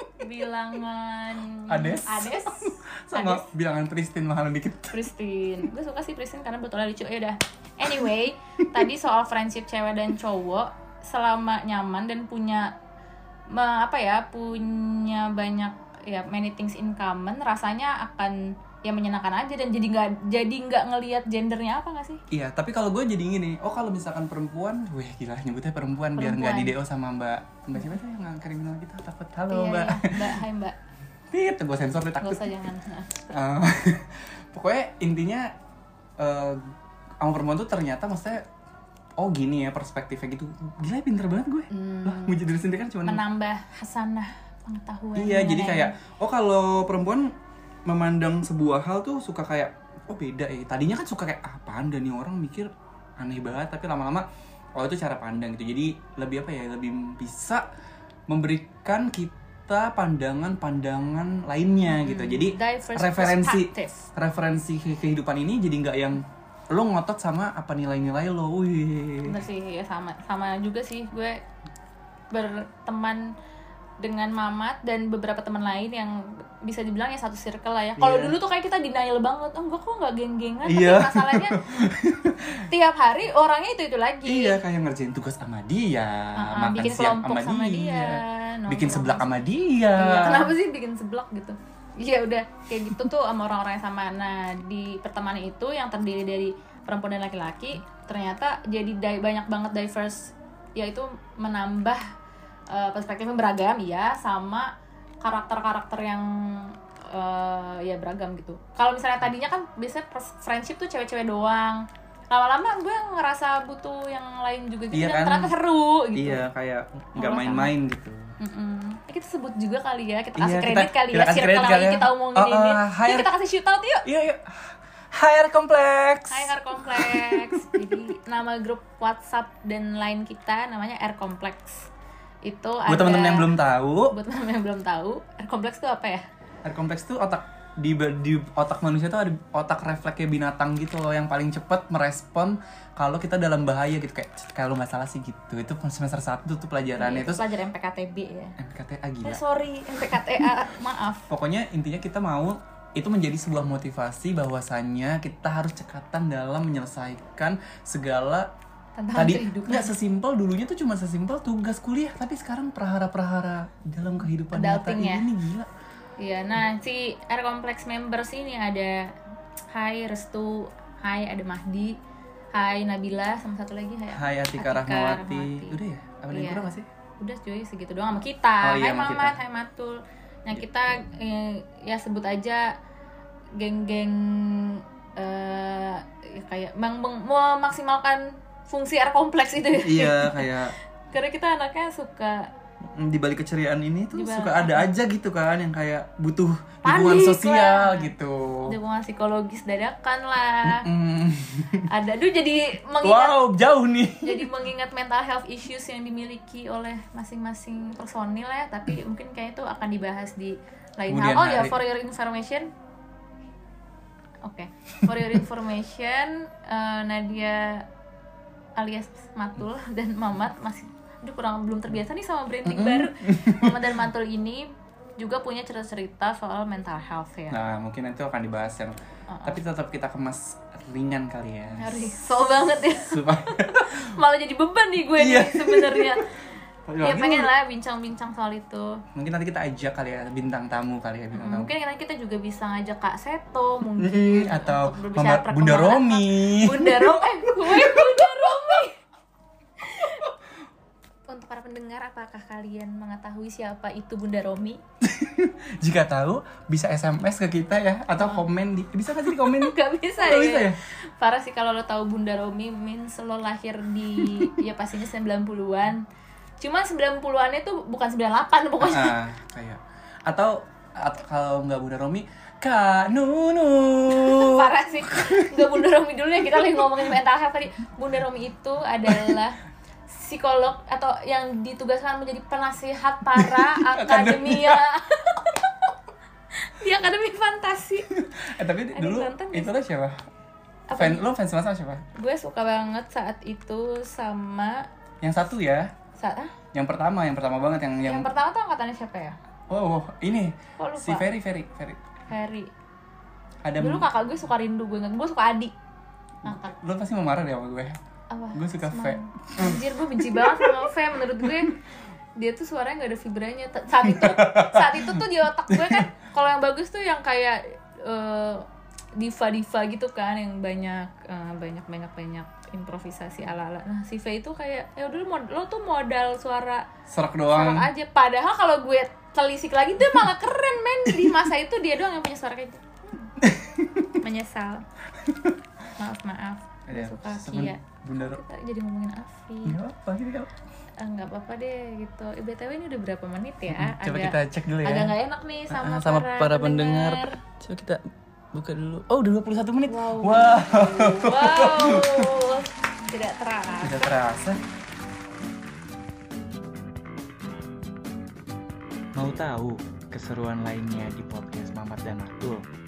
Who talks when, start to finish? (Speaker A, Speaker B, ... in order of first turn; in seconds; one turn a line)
Speaker A: 0.2-3.5
Speaker B: 1.7-5.0
Speaker A: 4.9-12.7
Speaker A: 13.5-22.2
Speaker B: 22.3-30.3
Speaker A: 26.1-26.8
Speaker A: 29.5-30.8
Speaker B: 31.3-32.5
Speaker A: 32.2-33.3
Speaker B: 33.3-35.5
Speaker B: 36.2-36.6
Speaker B: 37.2-38.5
Speaker B: 39.2-43.2
Speaker A: 41.7-42.4
Speaker A: 43.0-45.9
Speaker B: 45.1-47.3
Speaker B: 47.9-54.2
Speaker B: 54.8-57.6
Speaker B: 58.3-69.4
Speaker A: 61.9-64.1
Speaker A: 69.2-71.4
Speaker A: 72.3-73.2
Speaker A: 74.0-81.6
Speaker B: 78.0-78.4
Speaker B: 80.7-82.7
Speaker A: 82.7-84.6
Speaker B: 84.2-90.5
Speaker A: 86.4-89.3
Speaker A: 90.0-102.0
Speaker A: 102.7-104.7
Speaker A: 105.2-116.5
Speaker B: 114.9-115.5
Speaker B: 116.1-118.3
Speaker A: 117.2-117.7
Speaker A: 118.4-124.0
Speaker B: 120.4-123.3
Speaker B: 124.0-127.8
Speaker A: 126.3-131.9
Speaker A: 132.4-133.5
Speaker B: 132.9-134.1
Speaker A: 134.1-136.2
Speaker B: 136.6-147.4
Speaker A: 146.9-148.5
Speaker B: 148.6-149.4
Speaker A: 149.2-151.2
Speaker B: 151.3-158.5
Speaker A: 158.9-159.9
Speaker B: 159.1-165.7
Speaker A: 164.5-165.3
Speaker A: 166.2-169.1
Speaker A: 169.7-171.9
Speaker A: 172.5-175.8
Speaker B: 174.1-176.8
Speaker A: 176.3-176.7
Speaker A: 177.2-182.7
Speaker B: 178.6-179.4
Speaker A: 183.6-192.5
Speaker B: 189.7-190.7
Speaker B: 192.9-198.7
Speaker A: 194.1-194.9
Speaker A: 196.8-198.1
Speaker A: 198.7-200.8
Speaker B: 200.6-201.9
Speaker A: 201.9-203.4
Speaker B: 203.0-204.5
Speaker A: 204.2-212.7
Speaker B: 211.1-211.8
Speaker A: 214.4-217.8
Speaker A: 218.8-224.7
Speaker B: 222.6-223.9
Speaker A: 225.2-227.6
Speaker B: 227.5-232.2
Speaker A: 229.3-229.6
Speaker A: 231.8-236.3
Speaker B: 232.9-234.2
Speaker B: 235.2-236.2
Speaker B: 236.9-237.5
Speaker A: 237.0-239.0
Speaker B: 239.1-241.7
Speaker A: 241.3-249.0
Speaker B: 244.0-248.6
Speaker A: 249.8-250.3
Speaker A: 251.3-254.8
Speaker B: 255.0-260.8
Speaker A: 258.2-258.4
Speaker A: 259.2-266.0
Speaker B: 264.2-264.5
Speaker A: 266.6-269.1
Speaker B: 268.8-275.8
Speaker A: 274.1-279.6
Speaker B: 276.6-277.1
Speaker B: 279.1-279.4
Speaker A: 280.1-285.9
Speaker B: 283.3-284.8
Speaker A: 286.6-288.1
Speaker B: 288.1-290.1
Speaker A: 288.9-289.7
Speaker A: 290.9-291.2
Speaker B: 290.9-292.0
Speaker A: 292.1-294.8
Speaker B: 295.2-295.9
Speaker A: 296.2-296.5
Speaker B: 296.7-298.3
Speaker A: 298.0-299.4
Speaker B: 299.7-302.0
Speaker A: 300.8-301.2
Speaker A: 302.3-302.7
Speaker B: 303.6-304.1
Speaker A: 303.8-305.7
Speaker A: 306.4-306.7
Speaker B: 306.4-308.0
Speaker A: 308.3-311.8
Speaker B: 308.5-310.9
Speaker B: 311.4-311.7
Speaker A: 312.4-318.6
Speaker B: 314.0-316.1
Speaker A: 319.2-326.8
Speaker B: 327.1-327.9
Speaker A: 327.5-333.3
Speaker B: 333.4-334.2
Speaker A: 334.2-334.8
Speaker B: 335.3-335.5
Speaker A: 336.0-339.8
Speaker B: 336.9-338.4
Speaker B: 339.6-340.5
Speaker A: 341.0-347.4
Speaker B: 343.7-345.1
Speaker B: 345.7-352.3
Speaker A: 349.9-354.1
Speaker B: 353.8-354.6
Speaker B: 359.1-362.6